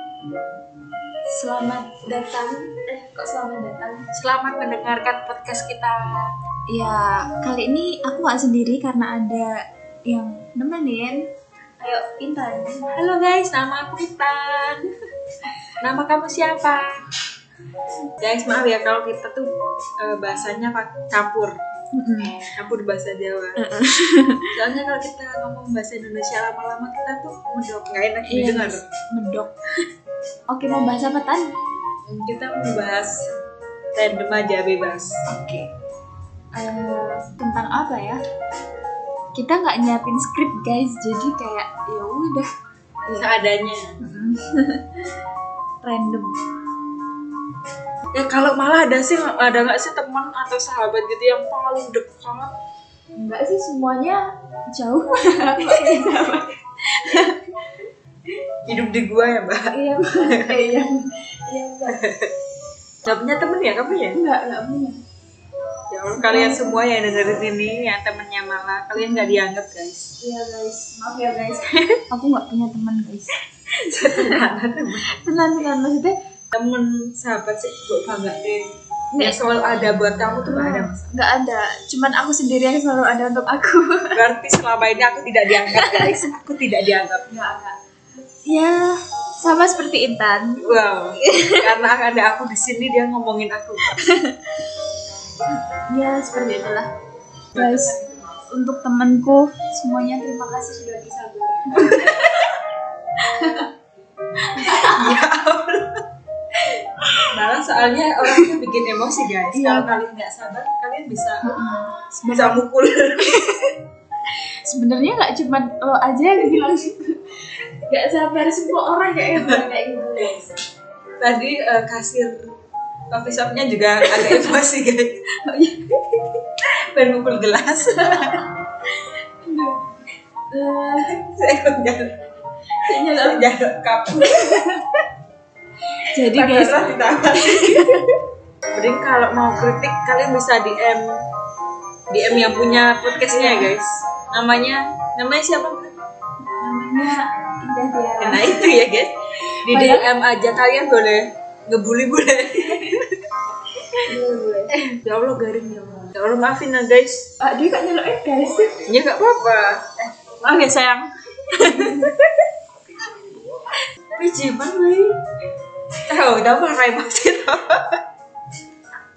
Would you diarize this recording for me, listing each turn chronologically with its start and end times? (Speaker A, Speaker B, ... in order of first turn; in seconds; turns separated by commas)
Speaker A: 1.3-4.1, Speaker B: 4.1-6.3, Speaker A: 6.7-12.9, Speaker B: 12.9-14.9, Speaker B: 15.8-17.0, Speaker B: 18.2-21.6, Speaker A: 22.0-22.4, Speaker B: 22.6-23.6, Speaker A: 23.6-24.5, Speaker B: 24.5-28.8, Speaker A: 28.2-29.5, Speaker A: 30.5-31.5, Speaker B: 32.1-33.3, Speaker B: 34.0-35.1, Speaker A: 35.3-35.7, Speaker A: 36.5-38.2, Speaker A: 39.4-42.5, Speaker A: 43.1-43.3, Speaker B: 43.1-43.9, Speaker A: 44.0-45.0, Speaker A: 45.8-46.4, Speaker B: 48.1-52.5, Speaker A: 53.2-57.5, Speaker B: 58.6-60.6, Speaker A: 59.7-62.0, Speaker B: 61.9-62.3, Speaker B: 63.0-64.2, Speaker A: 64.1-65.0, Speaker B: 65.9-70.1, Speaker A: 66.1-66.9, Speaker A: 69.0-69.4, Speaker A: 70.2-74.4, Speaker B: 73.9-75.1, Speaker A: 75.1-76.2, Speaker B: 76.5-78.7, Speaker A: 79.1-79.6, Speaker B: 79.2-81.1, Speaker A: 80.5-84.2, Speaker B: 84.2-87.3, Speaker A: 85.6-86.3, Speaker A: 87.3-87.8, Speaker A: 88.5-91.8, Speaker B: 90.6-94.0, Speaker A: 93.9-94.5, Speaker A: 95.5-96.9, Speaker B: 97.5-98.0, Speaker A: 97.5-102.6, Speaker B: 101.8-102.6, Speaker A: 103.2-103.7, Speaker A: 104.4-105.1, Speaker B: 104.6-106.0, Speaker A: 107.0-107.2, Speaker B: 107.3-111.6, Speaker A: 108.2-108.5, Speaker A: 109.5-110.0, Speaker A: 111.4-112.6, Speaker B: 112.3-113.4, Speaker A: 113.2-113.8, Speaker A: 114.7-120.5, Speaker B: 119.3-119.7, Speaker B: 121.2-122.5, Speaker B: 123.1-125.2, Speaker A: 124.0-124.7, Speaker A: 125.4-126.2, Speaker B: 126.6-128.5, Speaker A: 129.4-129.9, Speaker A: 130.5-131.2, Speaker B: 131.0-132.2, Speaker A: 132.8-133.5, Speaker B: 133.0-134.9, Speaker A: 134.2-134.8, Speaker A: 136.0-138.0, Speaker B: 136.2-138.0, Speaker B: 138.7-141.2, Speaker B: 142.1-145.9, Speaker A: 143.3-143.7, Speaker A: 146.6-148.8, Speaker B: 148.2-153.1, Speaker A: 149.7-150.1, Speaker A: 154.1-154.7, Speaker B: 154.7-157.3, Speaker A: 157.4-158.9, Speaker B: 158.9-162.2, Speaker A: 161.6-162.2, Speaker B: 164.2-165.2, Speaker B: 166.1-168.0